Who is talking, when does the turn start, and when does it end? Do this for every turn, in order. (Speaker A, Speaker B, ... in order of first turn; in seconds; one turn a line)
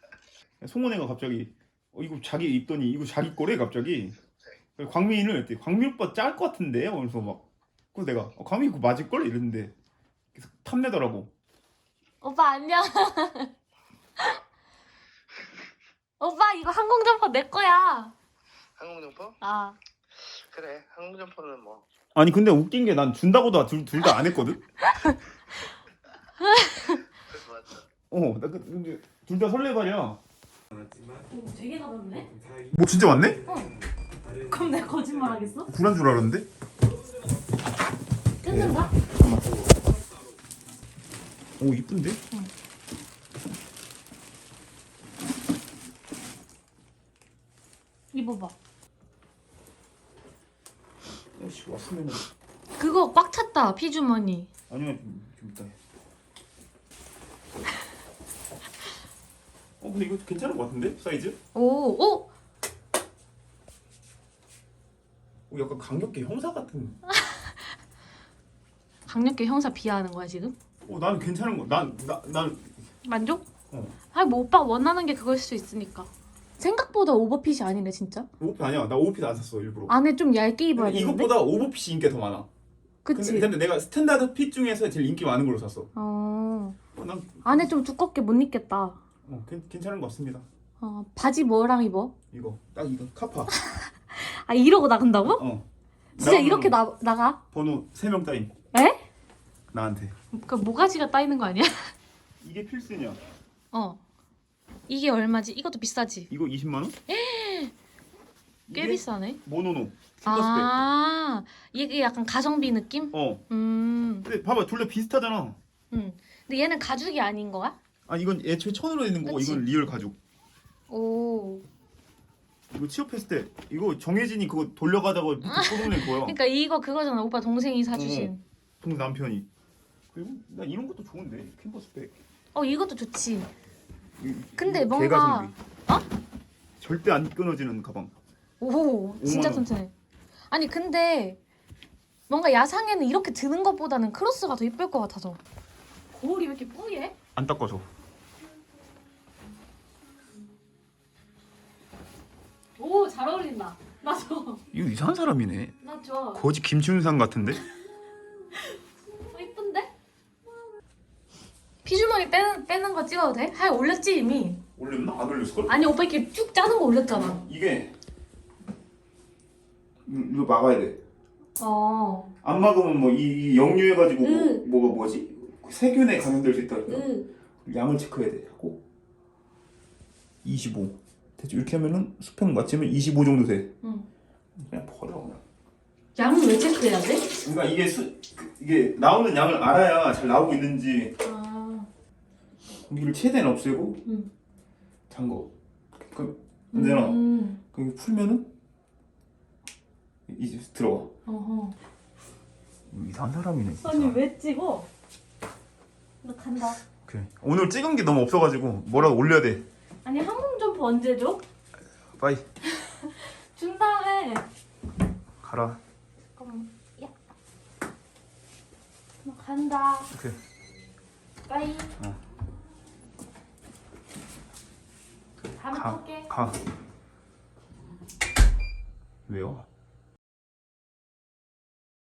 Speaker A: 0.6-4.2
Speaker A: 4.8-9.7
Speaker A: 10.3-11.3
Speaker B: 12.2-13.5
Speaker B: 16.2-18.1
Speaker C: 18.8-19.4
Speaker B: 19.4-19.8
Speaker C: 20.1-21.8
Speaker A: 22.1-24.6
Speaker B: 24.8-25.2
Speaker B: 26.4-27.0
Speaker C: 27.3-27.8
Speaker A: 28.1-30.2
Speaker B: 31.3-32.3
Speaker A: 32.7-33.4
Speaker B: 33.4-33.7
Speaker B: 34.5-35.7
Speaker A: 35.7-36.5
Speaker B: 38.4-38.9
Speaker A: 38.5-39.7
Speaker A: 41.6-42.2
Speaker B: 48.1-48.5
Speaker A: 51.4-52.3
Speaker B: 52.8-54.5
Speaker A: 54.7-55.8
Speaker A: 59.8-61.4
Speaker B: 61.5-62.3
Speaker A: 65.5-67.0
Speaker B: 67.1-67.5
Speaker B: 69.1-70.5
Speaker A: 70.9-72.8
Speaker B: 73.0-73.5
Speaker B: 74.1-78.3
Speaker A: 78.4-79.9
Speaker B: 79.9-81.3
Speaker A: 80.8-82.5
Speaker B: 83.0-83.5
Speaker A: 83.1-85.9
Speaker B: 86.0-86.8
Speaker A: 87.0-87.7
Speaker B: 87.5-89.0
Speaker A: 89.2-90.5
Speaker B: 90.8-92.1
Speaker A: 92.3-93.5
Speaker B: 93.6-95.4
Speaker A: 95.3-96.8
Speaker B: 96.2-97.4
Speaker A: 97.5-98.5
Speaker B: 98.7-99.0
Speaker A: 99.7-100.2
Speaker B: 100.3-101.9
Speaker A: 102.4-103.2
Speaker B: 103.7-104.0
Speaker B: 104.9-106.3
Speaker A: 106.3-107.0
Speaker B: 107.1-107.7
Speaker A: 108.7-110.7
Speaker B: 108.7-109.4
Speaker B: 110.2-114.3
Speaker A: 113.1-113.4
Speaker A: 114.2-115.6
Speaker B: 115.9-117.8
Speaker A: 118.1-120.2
Speaker B: 119.3-119.6
Speaker B: 120.9-121.6
Speaker A: 122.7-126.4
Speaker B: 125.5-128.4
Speaker A: 127.9-129.5
Speaker A: 130.1-132.2
Speaker B: 132.6-133.5
Speaker A: 134.2-135.6
Speaker B: 134.6-136.1
Speaker A: 136.8-138.1
Speaker B: 138.6-139.9
Speaker A: 139.2-139.7
Speaker B: 140.5-141.4
Speaker B: 142.3-145.4
Speaker B: 146.1-147.2
Speaker A: 147.4-147.9
Speaker B: 152.8-154.6
Speaker A: 154.7-155.8
Speaker B: 155.8-156.4
Speaker A: 156.3-157.6
Speaker B: 158.5-159.9
Speaker B: 161.8-164.6
Speaker A: 164.8-165.8
Speaker B: 165.7-167.4
Speaker A: 167.2-167.9
Speaker A: 170.1-171.0
Speaker B: 171.6-172.3
Speaker A: 172.4-177.1
Speaker B: 174.2-174.6
Speaker B: 176.9-177.3
Speaker A: 177.7-178.8
Speaker A: 180.4-183.8
Speaker A: 184.6-185.4
Speaker B: 186.2-187.4
Speaker A: 187.4-191.2
Speaker B: 191.2-191.9
Speaker A: 192.9-194.0
Speaker A: 195.1-198.6
Speaker B: 196.7-197.6
Speaker A: 200.3-201.1
Speaker B: 201.3-201.8
Speaker A: 202.9-204.2
Speaker B: 203.8-204.9
Speaker B: 206.2-206.8
Speaker A: 207.1-209.7
Speaker B: 210.0-211.4
Speaker A: 212.2-212.4
Speaker B: 212.8-214.5
Speaker A: 215.4-215.8
Speaker B: 216.4-217.1
Speaker B: 219.2-220.1
Speaker A: 220.1-220.4
Speaker B: 221.5-222.0
Speaker B: 225.5-226.3
Speaker A: 225.7-226.6
Speaker A: 229.3-229.7